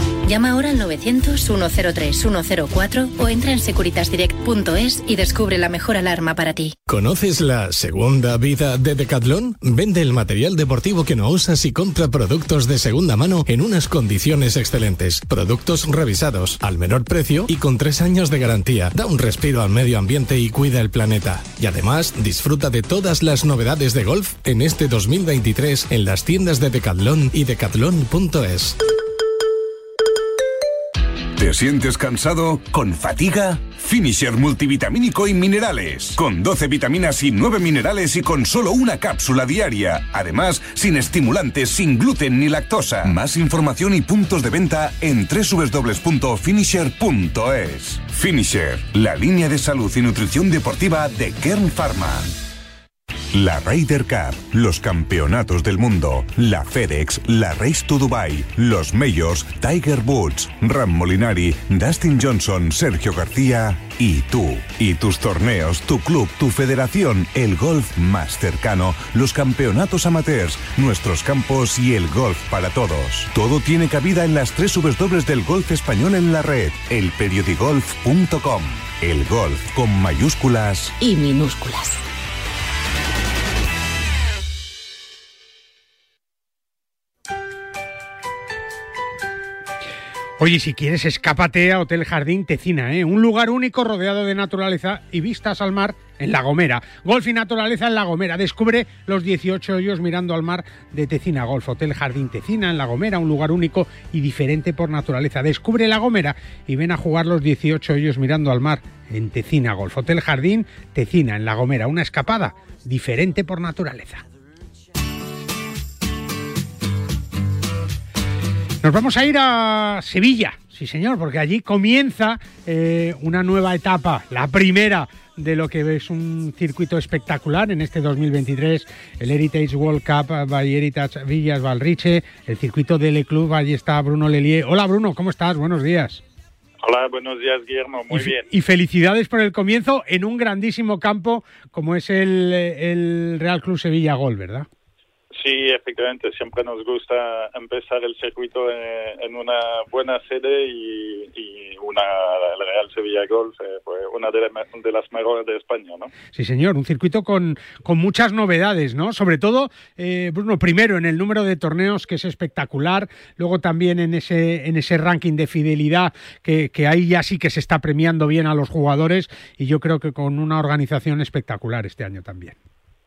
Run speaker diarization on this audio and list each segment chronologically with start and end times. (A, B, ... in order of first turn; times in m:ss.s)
0:00.3-0:06.8 A
0:06.9-0:28.8 B
0:31.4-0:52.3 C
0:53.3-1:21.0 C
1:21.0-1:22.0 A
1:30.4-1:54.2 D
1:58.8-2:16.2 D
2:16.8-2:18.5 E
2:18.1-2:24.7 D
2:25.3-2:36.1 E
2:36.3-2:52.6 D